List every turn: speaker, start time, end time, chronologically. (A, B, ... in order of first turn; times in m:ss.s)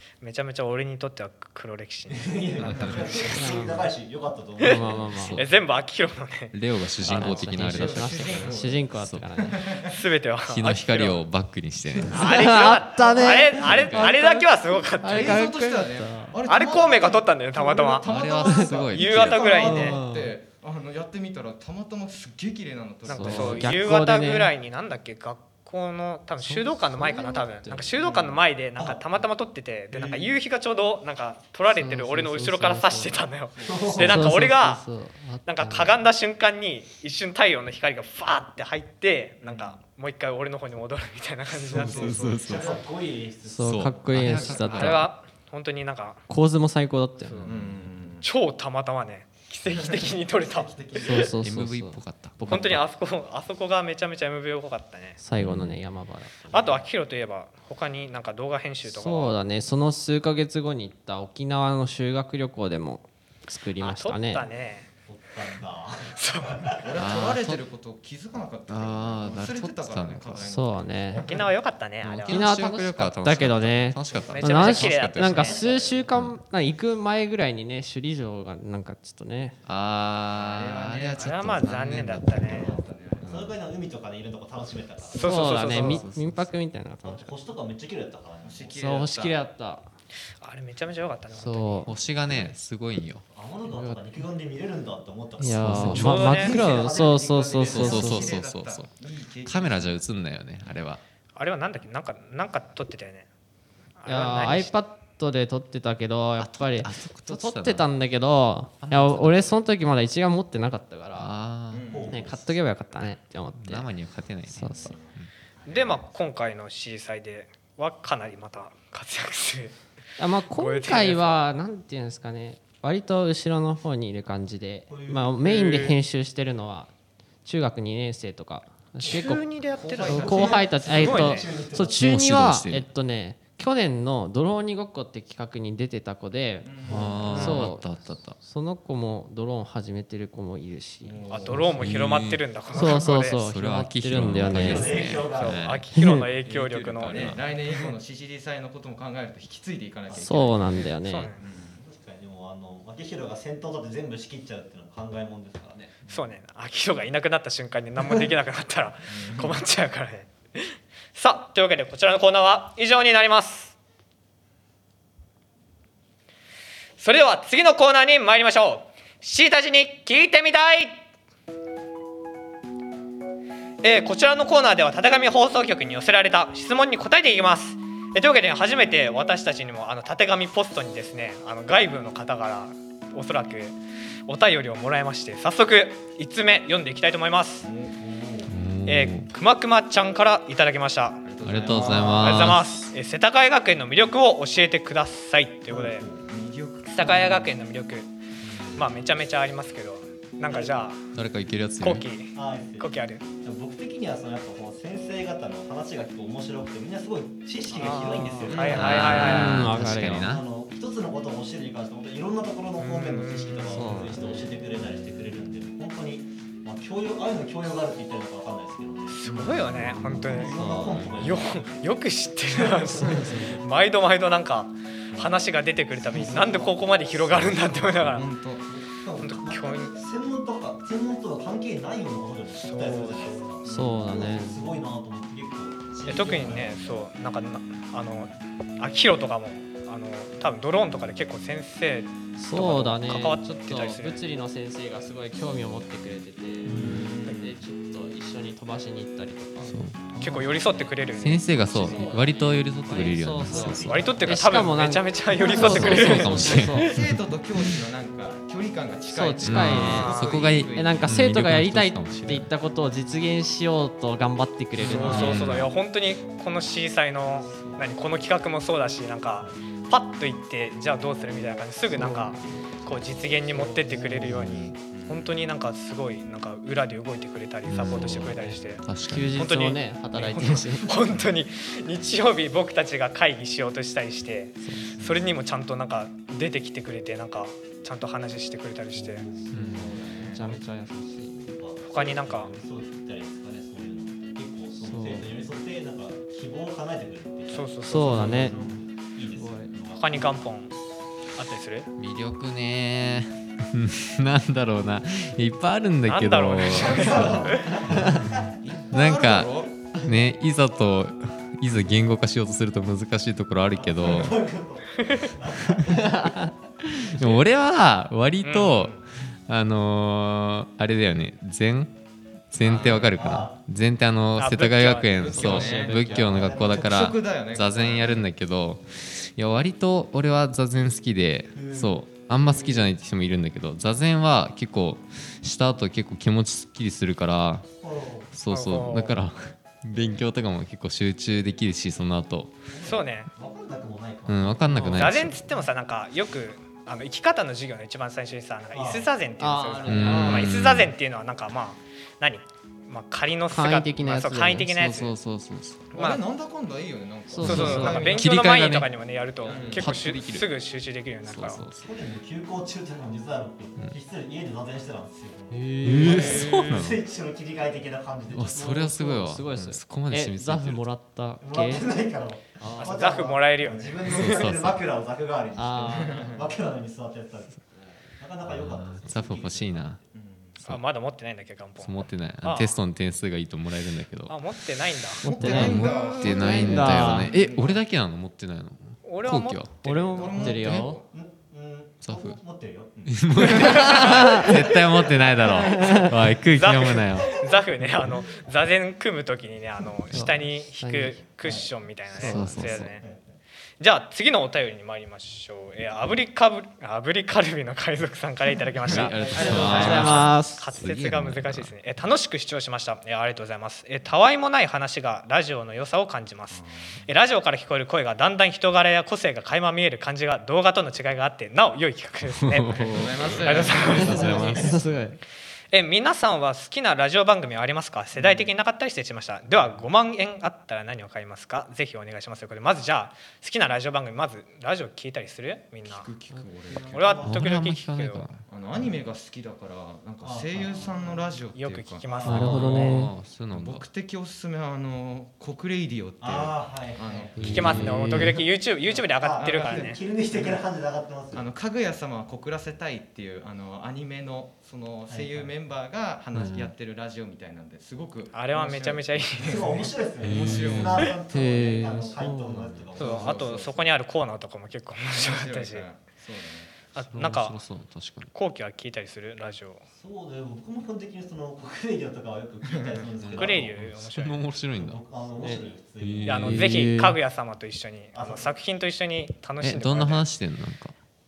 0:00.2-0:02.5 A
0:02.1-0:05.1 B
0:02.6-0:03.2 C
0:02.6-0:03.4 D
0:03.3-0:03.9 E
0:04.6-0:05.4 E
0:05.2-0:05.5 C
0:05.4-0:07.4 A
0:06.5-0:08.4 C
0:07.0-0:09.6 E
0:07.2-0:10.0 D
0:09.0-0:09.3 C
0:09.8-0:11.2 A
0:10.4-0:12.6 C
0:12.1-0:15.5 A
0:12.1-0:14.4 E
0:13.6-0:14.1 C
0:13.6-0:23.8 D
0:15.0-0:16.4 E
0:16.5-0:18.1 A
0:18.1-0:19.6 C
0:18.4-0:18.7 E
0:18.9-0:20.0 A
0:19.6-0:20.4 E
0:23.1-0:34.8 A
0:23.1-0:24.5 E
0:26.4-0:27.9 E
0:28.0-0:28.4 D
0:28.8-0:29.0 B
0:29.9-0:30.3 D
0:31.7-0:33.2 E
0:33.6-0:34.3 B
0:34.0-0:35.9 E
0:34.0-0:34.3 C
0:35.5-0:42.2 A
0:39.4-0:39.8 D
0:41.5-0:42.9 D
0:41.7-0:44.1 B
0:41.8-0:42.7 C
0:43.5-0:45.1 E
0:43.6-0:45.1 C
0:44.3-0:46.2 A
0:46.3-0:47.6 E
0:47.2-0:47.5 A
0:47.4-0:48.3 D
0:48.2-0:51.1 A
0:49.8-0:51.3 D
0:51.0-0:52.8 E
0:51.3-0:52.8 C
0:52.5-0:55.2 A
0:55.2-0:56.4 E
0:55.4-0:55.8 C
0:56.5-0:56.8 B
0:56.5-0:59.4 A
0:58.9-1:04.4 E
1:03.8-1:04.9 A
1:05.1-1:06.9 B
1:06.2-1:06.9 A
1:06.8-1:11.5 D
1:07.0-1:07.6 C
1:08.7-1:10.5 C
1:10.5-1:11.3 E
1:11.2-1:12.4 A
1:12.0-1:15.6 C
1:12.3-1:19.6 E
1:14.0-1:14.7 D
1:14.4-1:15.6 A
1:15.3-1:16.1 B
1:16.1-1:16.4 C
1:19.7-1:22.6 C
1:20.3-1:23.3 D
1:21.2-1:22.8 A
1:22.4-1:25.6 B
1:23.2-1:23.5 C
1:25.1-1:26.0 A
1:25.2-1:27.2 E
1:25.7-1:26.5 C
1:27.0-1:28.7 B
1:28.4-1:29.4 D
1:28.7-1:29.9 E
1:30.4-1:31.9 A
1:31.3-1:31.9 E
1:31.9-1:33.2 C
1:33.3-1:38.1 B
1:33.7-1:34.2 E
1:35.4-1:38.3 E
1:35.5-1:36.3 C
1:36.0-1:36.6 A
1:36.3-1:40.0 D
1:37.7-1:38.9 C
1:39.4-1:41.0 C
1:41.4-1:43.3 A
1:44.0-1:44.8 A
1:44.1-1:51.3 E
1:46.4-1:47.9 C
1:48.8-1:49.6 C
1:51.2-1:52.3 C
1:51.7-1:52.2 D
1:51.9-1:52.4 B
1:52.1-1:53.9 E
1:53.5-1:55.3 C
1:54.5-1:54.9 E
1:55.7-1:59.7 A
1:55.7-1:56.0 D
2:00.2-2:06.9 E
2:00.5-2:01.4 A
2:04.9-2:05.4 B
2:05.4-2:06.0 A
2:07.4-2:09.5 E
2:09.0-2:11.5 A
2:09.7-2:11.5 D
2:10.0-2:16.7 E
2:10.1-2:12.1 B
2:11.9-2:12.9 C
2:16.6-2:17.6 D
2:16.8-2:17.3 B
2:16.9-2:18.4 C
2:17.3-2:21.6 E
2:17.3-2:17.6 A
2:21.0-2:21.8 D
2:21.3-2:23.4 A
2:21.8-2:22.4 C
2:22.7-2:23.2 B
2:22.7-2:25.0 E
2:23.3-2:25.9 C
2:24.4-2:25.6 B
2:25.2-2:27.4 A
2:25.9-2:26.3 E
2:26.4-2:31.8 D
2:27.0-2:27.4 C
2:30.1-2:30.6 B
2:30.1-2:31.3 E
2:31.0-2:31.4 A
2:31.7-2:36.0 B
2:36.1-2:43.8 A
2:39.1-2:39.6 D
2:47.0-2:51.0 A
2:53.8-3:03.8 A
3:04.3-3:07.7 A
3:07.6-3:07.9 D
3:07.9-3:08.5 B
3:08.5-3:09.3 C
3:08.9-3:11.3 A
3:11.2-3:12.4 D
3:11.4-3:12.8 C
3:11.5-3:12.5 B
3:12.2-3:16.1 A
3:15.7-3:16.3 B
3:16.3-3:17.5 D
3:16.9-3:18.1 A
3:18.5-3:18.8 D
3:18.8-3:21.1 A
3:20.4-3:20.8 B
3:21.1-3:22.1 C
3:21.8-3:23.2 A
3:22.3-3:39.2 B
3:27.7-3:29.7 A
3:28.5-3:29.0 D
3:28.8-3:30.5 C
3:29.0-3:30.3 E
3:32.8-3:33.8 A
3:33.7-3:34.2 E
3:39.1-3:40.6 A
3:39.3-3:40.3 D
3:39.7-3:41.8 B
3:40.4-3:41.2 E
3:41.2-3:48.3 A
3:42.5-3:43.5 B
3:43.0-3:43.6 E
3:45.9-3:56.9 B
3:48.0-3:48.6 D
3:49.2-3:49.9 A
3:52.6-3:53.6 A
3:53.6-3:54.7 E
3:53.7-3:54.0 D
3:56.1-4:04.2 A
4:02.4-4:09.8 E
4:06.6-4:07.2 B
4:06.7-4:07.5 D
4:06.7-4:07.0 C
4:09.7-4:10.1 C
4:10.1-4:10.6 B
4:10.2-4:11.4 A
4:11.2-4:14.1 C
4:11.7-4:16.9 E
4:13.4-4:14.7 B
4:13.8-4:16.7 A
4:15.4-4:21.2 D
4:15.5-4:17.7 C
4:19.1-4:20.2 E
4:19.4-4:22.5 C
4:19.7-4:20.4 A
4:20.7-4:25.6 E
4:24.8-4:49.3 A
4:24.9-4:25.5 B
4:25.0-4:25.7 C
4:27.4-4:28.0 B
4:31.9-4:32.4 E
4:33.5-4:34.7 E
4:33.8-4:34.8 B
4:34.8-4:35.3 D
4:37.7-4:39.4 C
4:39.1-4:40.9 E
4:40.5-4:41.1 B
4:44.6-4:45.0 E
4:49.3-4:50.6 B
4:49.5-4:49.9 C
4:49.6-4:51.4 E
4:49.7-4:50.5 D
4:51.3-5:00.4 B
4:51.8-4:52.5 A
4:54.8-4:55.3 E
4:57.5-4:58.6 A
4:57.9-4:58.6 E
4:59.3-4:59.7 E
5:00.0-5:00.7 A
5:01.4-5:01.9 A
5:02.0-5:08.3 C
5:06.1-5:07.8 A
5:06.7-5:08.6 B
5:07.9-5:08.2 E
5:08.6-5:09.8 D
5:08.9-5:14.3 C
5:13.7-5:16.5 B
5:15.0-5:15.3 A
5:15.9-5:16.5 E
5:17.0-5:21.9 C
5:18.4-5:19.0 A
5:22.5-5:37.7 C
5:22.6-5:23.1 D
5:22.9-5:23.6 B
5:24.4-5:25.4 A
5:24.9-5:28.3 D
5:25.2-5:26.5 E
5:26.0-5:27.1 B
5:31.5-5:32.8 B
5:37.8-5:38.3 B
5:38.3-5:42.6 C
5:38.5-5:39.2 A
5:42.7-5:44.7 B
5:42.8-5:43.3 A
5:44.3-5:45.4 C
5:44.7-5:45.4 E
5:44.9-5:55.1 A
5:48.7-5:49.1 B
5:49.4-5:50.6 E
5:49.8-5:50.9 C
5:53.5-5:54.7 E
5:54.7-5:55.9 C
5:55.9-5:58.6 D
5:55.9-5:56.2 A
5:57.3-5:58.1 E
5:57.4-6:01.6 A
5:57.4-5:58.9 C
5:59.4-6:00.0 D
5:59.7-6:00.5 C
6:01.2-6:01.9 C
6:01.8-6:08.8 B
6:05.5-6:06.7 E
6:05.8-6:07.0 C
6:06.1-6:06.7 D
6:08.3-6:10.8 C
6:08.5-6:11.9 E
6:11.4-6:20.0 B
6:12.6-6:13.0 E
6:12.8-6:14.5 A
6:14.1-6:14.8 C
6:15.6-6:16.3 E
6:16.0-6:16.5 D
6:18.5-6:20.0 C
6:20.1-6:20.6 D
6:20.6-6:22.8 A
6:21.8-6:24.4 C
6:24.3-6:26.5 A
6:25.2-6:27.3 E
6:25.2-6:27.8 D
6:25.2-6:29.9 C
6:29.0-6:30.5 A
6:29.8-6:31.0 E
6:30.0-6:31.1 D
6:30.5-6:30.8 C
6:30.5-6:35.3 B
6:32.0-6:32.4 C
6:33.1-6:37.4 C
6:33.6-6:34.5 E
6:35.5-6:36.1 E
6:36.5-6:43.0 A
6:37.3-6:38.4 B
6:40.1-6:41.2 E
6:42.2-6:42.8 E
6:42.2-6:43.2 B
6:42.2-6:43.0 C
6:43.8-7:04.6 A
6:48.9-6:51.7 C
6:48.9-6:50.2 D
6:48.9-6:50.1 B
6:49.5-6:50.7 E
6:56.5-6:57.0 D
7:02.3-7:04.8 C
7:02.7-7:05.1 D
7:04.0-7:05.2 E
7:04.0-7:04.5 B
7:05.7-7:16.1 A
7:08.2-7:08.5 D
7:15.8-7:17.4 D
7:16.7-7:17.5 B
7:16.9-7:18.3 A
7:17.2-7:18.5 C
7:18.5-7:28.0 D
7:20.2-7:21.3 B
7:21.5-7:22.9 A
7:22.0-7:22.6 B
7:22.3-7:23.1 E
7:22.4-7:23.9 C
7:26.2-7:27.8 B
7:27.4-7:28.4 C
7:27.4-7:28.4 E
7:27.4-7:30.0 A
7:28.8-7:30.6 D
7:29.2-7:31.5 B
7:31.3-7:41.2 D
7:35.1-7:35.5 B
7:36.4-7:36.7 C
7:38.3-7:39.7 A
7:39.4-7:43.8 B
7:40.2-7:41.1 C
7:41.3-7:42.8 E
7:43.0-7:43.7 D
7:43.0-7:45.9 A
7:45.1-7:46.7 D
7:46.9-7:47.6 A
7:47.1-7:48.3 C
7:48.3-7:49.8 A
7:49.9-7:53.8 B
7:52.7-7:53.1 D
7:53.2-7:55.0 C
7:53.3-7:54.4 A
7:54.8-7:56.6 B
7:55.4-7:55.7 E
7:56.0-7:56.9 C
7:56.3-8:00.2 A
7:56.4-7:57.2 E
7:58.1-7:58.5 B
7:59.6-8:01.0 C